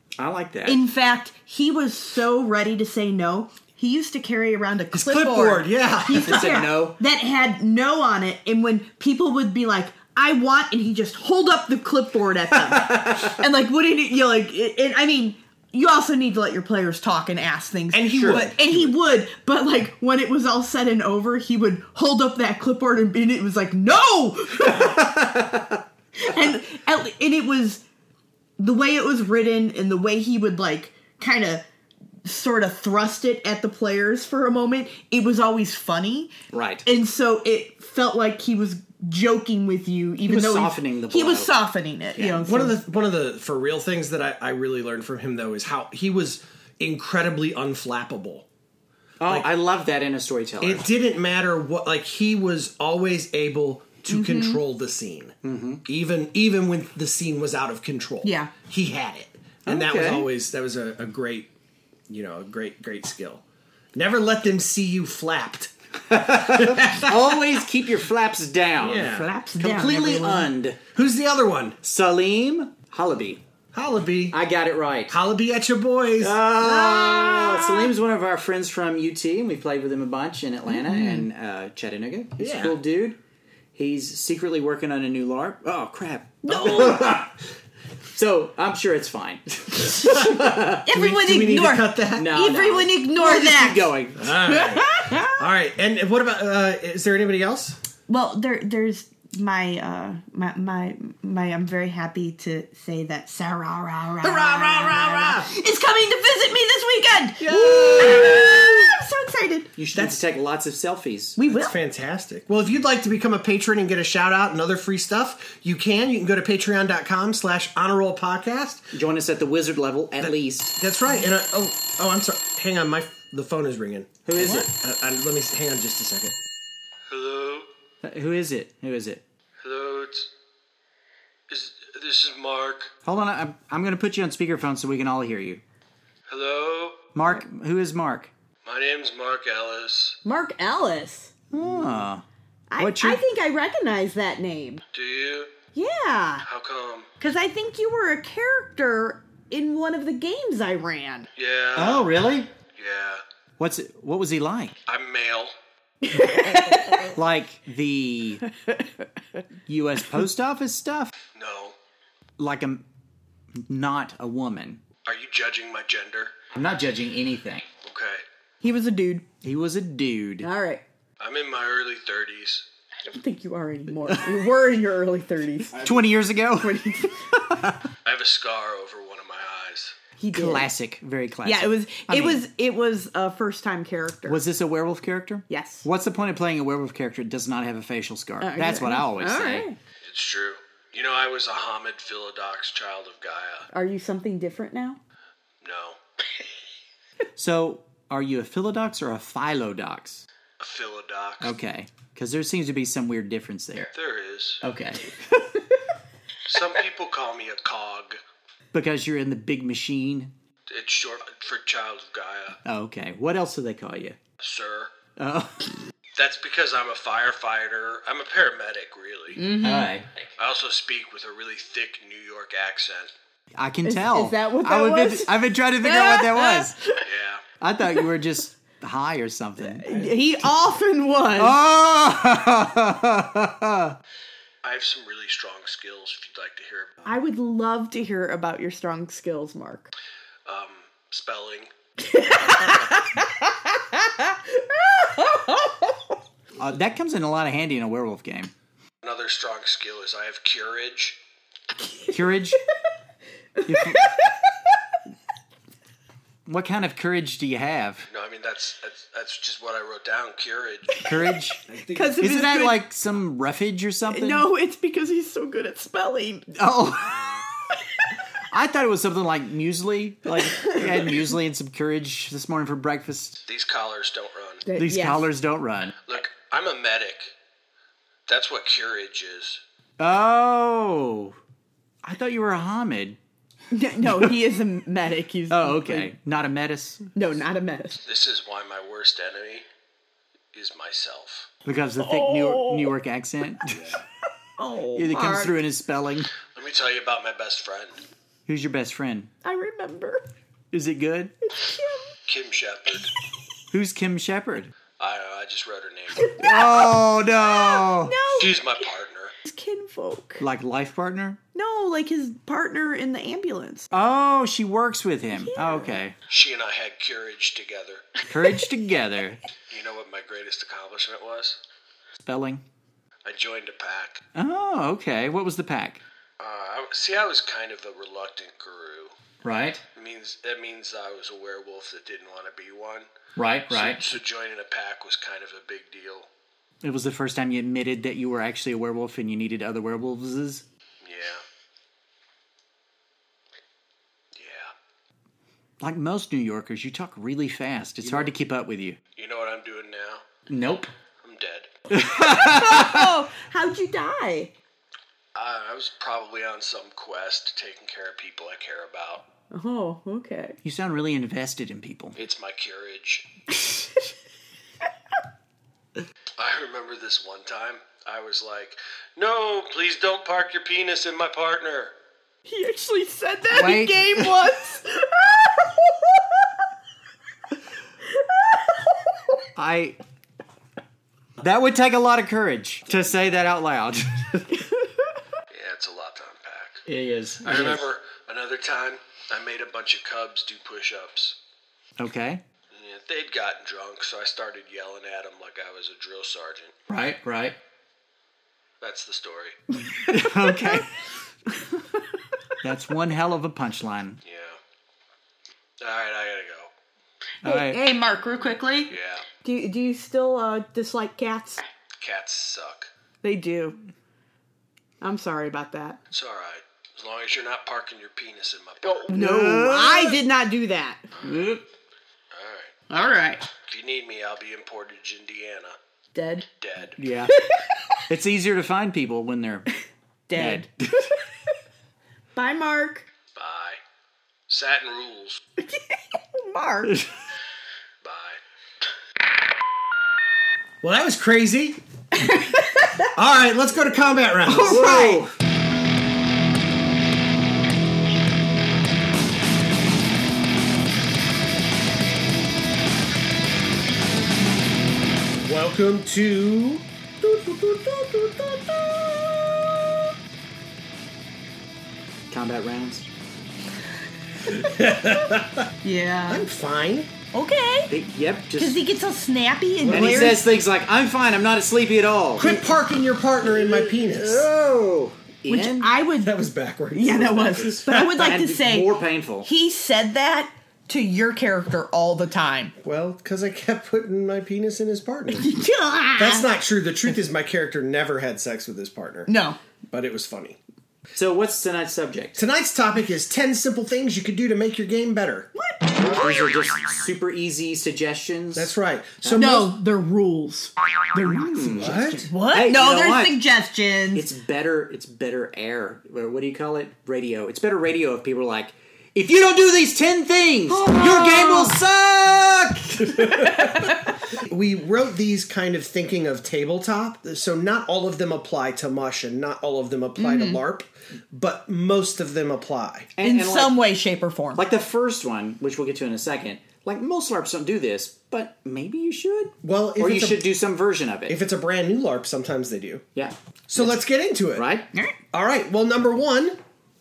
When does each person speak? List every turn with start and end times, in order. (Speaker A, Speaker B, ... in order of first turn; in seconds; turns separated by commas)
Speaker A: 0.2-0.8, Speaker B: 0.7-25.1, Speaker C: 4.9-6.6, Speaker A: 6.1-7.0, Speaker C: 12.9-13.2, Speaker C: 17.9-18.9, Speaker A: 18.2-18.5, Speaker A: 24.7-25.8, Speaker B: 26.2-27.8, Speaker B: 28.6-31.6, Speaker B: 32.2-36.3, Speaker A: 36.5-36.9, Speaker B: 36.9-42.8, Speaker A: 40.2-41.5, Speaker C: 42.4-48.5, Speaker A: 49.2-50.9, Speaker C: 50.6-61.5, Speaker B: 54.1-54.6, Speaker A: 55.4-55.8, Speaker B: 58.2-58.5, Speaker A: 59.7-60.3, Speaker C: 62.1-63.4, Speaker C: 64.0-67.5, Speaker A: 66.1-70.8, Speaker C: 68.8-69.3, Speaker B: 69.0-70.5, Speaker C: 71.0-71.8, Speaker A: 71.8-73.4, Speaker C: 73.7-74.4, Speaker A: 74.3-75.2, Speaker C: 75.1-76.4, Speaker A: 76.2-83.2, Speaker B: 76.6-77.9, Speaker B: 80.7-81.2, Speaker C: 82.4-82.8, Speaker A: 83.8-87.4, Speaker B: 86.4-87.2, Speaker C: 86.5-87.2, Speaker A: 88.1-90.9, Speaker B: 89.8-90.2, Speaker B: 90.8-93.9, Speaker C: 90.9-92.3, Speaker A: 92.2-94.4, Speaker C: 94.2-97.8, Speaker B: 94.5-95.4, Speaker B: 98.1-109.7, Speaker C: 104.2-105.5, Speaker A: 104.8-105.3, Speaker A: 107.4-108.7, Speaker C: 107.6-108.6, Speaker A: 109.8-111.4, Speaker C: 109.9-110.2, Speaker B: 111.4-111.7, Speaker C: 111.5-118.9, Speaker A: 118.9-120.8, Speaker C: 120.2-126.4, Speaker A: 124.2-124.7, Speaker D: 127.1-127.7, Speaker A: 128.0-129.2, Speaker D: 129.6-130.3, Speaker D: 131.5-132.9, Speaker A: 133.1-135.6, Speaker D: 136.3-137.0, Speaker A: 137.1-138.3, Speaker D: 138.7-140.2, Speaker B: 140.2-141.3, Speaker A: 141.5-142.2, Speaker B: 142.7-144.8, Speaker A: 142.8-143.2, Speaker D: 144.9-145.5, Speaker B: 145.7-146.5, Speaker D: 146.4-147.1, Speaker B: 147.2-151.3, Speaker D: 151.4-152.1, Speaker A: 151.8-152.5, Speaker D: 152.8-153.2, Speaker A: 153.6-154.8, Speaker D: 154.9-155.5, Speaker B: 156.1-157.2, Speaker A: 156.7-158.4, Speaker A: 159.7-161.1, Speaker D: 161.4-161.8, Speaker A: 162.4-162.8, Speaker A: 163.6-164.8, Speaker D: 165.1-166.3, Speaker A: 166.5-167.7, Speaker D: 167.8-168.2, Speaker B: 168.6-169.2, Speaker A: 169.4-170.5, Speaker B: 170.4-170.8, Speaker D: 171.2-172.6, Speaker B: 173.0-176.0, Speaker A: 174.1-174.5, Speaker A: 175.7-176.8, Speaker B: 176.6-177.3, Speaker A: 177.3-177.8, Speaker D: 178.1-179.9, Speaker B: 180.2-180.7, Speaker A: 180.3-182.4, Speaker B: 181.4-184.4, Speaker A: 184.3-189.7, Speaker B: 185.5-185.9, Speaker B: 188.4-189.8, Speaker D: 190.0-193.7, Speaker B: 193.7-195.0, Speaker D: 195.6-196.0, Speaker A: 197.3-200.2, Speaker D: 200.6-201.5, Speaker A: 201.4-203.9, Speaker D: 203.9-204.6, Speaker A: 204.6-205.6, Speaker D: 206.5-208.2, Speaker A: 208.7-210.3, Speaker D: 210.7-212.6, Speaker A: 212.7-214.2, Speaker D: 214.4-214.9, Speaker A: 215.2-215.7, Speaker D: 216.2-219.4, Speaker B: 219.4-219.9, Speaker A: 219.6-220.1, Speaker D: 220.4-223.1, Speaker A: 223.6-226.8, Speaker B: 223.8-225.3, Speaker B: 225.8-227.0, Speaker D: 227.1-227.4, Speaker A: 227.6-230.1, Speaker B: 229.6-231.6, Speaker A: 231.3-234.0, Speaker D: 234.6-236.9, Speaker B: 237.1-239.9, Speaker D: 240.5-241.7, Speaker B: 242.0-246.0, Speaker A: 246.6-248.5, Speaker D: 249.0-251.2, Speaker A: 252.1-252.6, Speaker B: 253.6-254.5, Speaker A: 253.6-254.2, Speaker A: 256.5-258.1, Speaker D: 258.1-260.9, Speaker A: 261.0-261.6, Speaker B: 261.9-262.8, Speaker A: 262.2-264.5, Speaker B: 264.1-266.5, Speaker A: 266.6-267.4, Speaker A: 268.5-273.4, Speaker D: 273.5-274.6, Speaker B: 274.6-275.3, Speaker A: 274.8-276.1, Speaker D: 276.1-277.3, Speaker D: 278.3-279.6, Speaker A: 280.0-281.4, Speaker A: 282.0-283.2, Speaker B: 283.7-286.1, Speaker A: 284.0-284.3, Speaker A: 285.5-287.1, Speaker B: 287.1-288.0, Speaker D: 288.1-289.6, Speaker D: 290.6-291.5, Speaker A: 291.6-294.0, Speaker B: 292.0-292.9, Speaker B: 294.6-295.6, Speaker A: 295.0-296.3, Speaker D: 296.6-298.0, Speaker A: 298.5-299.3, Speaker B: 299.4-300.2, Speaker A: 300.7-301.3, Speaker B: 301.6-302.1, Speaker D: 302.3-303.1, Speaker A: 303.7-304.7, Speaker D: 305.0-306.3, Speaker B: 306.1-308.9, Speaker A: 306.4-308.2, Speaker D: 308.4-309.3, Speaker B: 309.4-310.4, Speaker A: 310.4-311.4, Speaker B: 311.5-313.9, Speaker A: 313.9-316.1, Speaker B: 315.4-316.0, Speaker D: 316.3-318.1, Speaker A: 318.3-319.4, Speaker D: 319.7-321.6, Speaker A: 322.2-322.6, Speaker D: 323.2-324.2, Speaker A: 324.4-326.0, Speaker D: 326.4-329.1, Speaker A: 329.4-329.8, Speaker D: 330.0-333.1, Speaker A: 333.4-334.0, Speaker D: 333.7-336.2, Speaker A: 336.8-340.6, Speaker D: 341.0-341.4, Speaker D: 344.4-344.7, Speaker A: 345.8-349.0, Speaker D: 349.2-350.2, Speaker A: 350.5-350.9, Speaker D: 351.2-351.7, Speaker A: 351.9-353.1, Speaker B: 352.2-354.5, Speaker D: 355.4-359.2, Speaker B: 359.5-360.6, Speaker A: 360.6-362.2, Speaker D: 362.2-363.2, Speaker B: 363.6-364.0, Speaker D: 366.4-371.9, Speaker B: 372.5-375.8, Speaker A: 373.5-374.4, Speaker A: 379.6-380.0, Speaker A: 381.4-384.5, Speaker D: 385.5-386.8, Speaker A: 386.9-387.9, Speaker D: 387.5-391.3, Speaker A: 392.0-392.4, Speaker D: 392.8-396.7, Speaker A: 396.9-397.6, Speaker D: 398.8-399.6, Speaker A: 399.9-401.0, Speaker B: 400.2-400.8, Speaker A: 402.6-404.2, Speaker D: 404.2-404.6, Speaker D: 405.8-406.7, Speaker A: 407.4-407.8, Speaker B: 407.4-411.6, Speaker D: 408.9-409.2, Speaker D: 412.0-412.9, Speaker B: 413.2-413.8, Speaker B: 415.0-416.0, Speaker D: 416.1-419.1, Speaker B: 418.9-421.1, Speaker A: 419.1-420.2, Speaker A: 421.2-421.6, Speaker D: 422.3-422.7, Speaker B: 422.9-423.5, Speaker D: 423.7-425.8, Speaker B: 426.1-426.5, Speaker D: 426.6-426.9, Speaker A: 427.0-427.4, Speaker B: 427.4-427.7, Speaker A: 428.1-429.7, Speaker B: 430.3-431.1, Speaker A: 430.4-431.1, Speaker B: 432.4-433.1, Speaker D: 433.4-433.8, Speaker D: 434.5-435.4, Speaker B: 435.6-437.0, Speaker D: 438.0-438.4, Speaker C: 440.8-441.8, Speaker B: 442.2-443.1, Speaker C: 443.1-445.2, Speaker A: 444.5-445.4, Speaker B: 444.5-445.2, Speaker C: 455.4-459.5, Speaker A: 462.3-463.1, Speaker C: 464.5-465.7, Speaker B: 465.8-466.5, Speaker C: 466.3-467.1, Speaker B: 467.3-467.9, Speaker A: 467.9-468.8, Speaker B: 468.6-470.5, Speaker C: 469.8-470.4, Speaker A: 469.9-472.5, Speaker C: 472.4-474.5, Speaker A: 473.5-475.9, Speaker B: 475.5-476.4, Speaker C: 476.2-478.4, Speaker B: 476.9-478.9, Speaker A: 478.0-479.5, Speaker B: 479.4-482.7, Speaker C: 482.8-485.5, Speaker B: 485.3-486.5, Speaker C: 486.2-489.3, Speaker B: 489.3-489.6, Speaker C: 489.9-490.6, Speaker A: 491.1-492.4, Speaker C: 492.4-495.5, Speaker B: 495.6-495.9, Speaker A: 496.0-498.7, Speaker C: 498.5-499.7, Speaker A: 499.2-499.5, Speaker B: 499.4-504.3, Speaker A: 501.3-502.0, Speaker C: 501.8-502.3, Speaker A: 502.5-503.4, Speaker A: 504.1-513.3, Speaker B: 510.7-511.8, Speaker C: 513.1-523.1, Speaker B: 513.4-514.0, Speaker B: 520.2-520.6, Speaker A: 523.2-523.8, Speaker B: 523.2-524.6, Speaker A: 524.6-531.4, Speaker C: 529.6-530.5, Speaker C: 531.3-533.0, Speaker A: 533.1-534.0, Speaker C: 533.7-534.7, Speaker A: 534.5-534.9, Speaker C: 535.3-536.6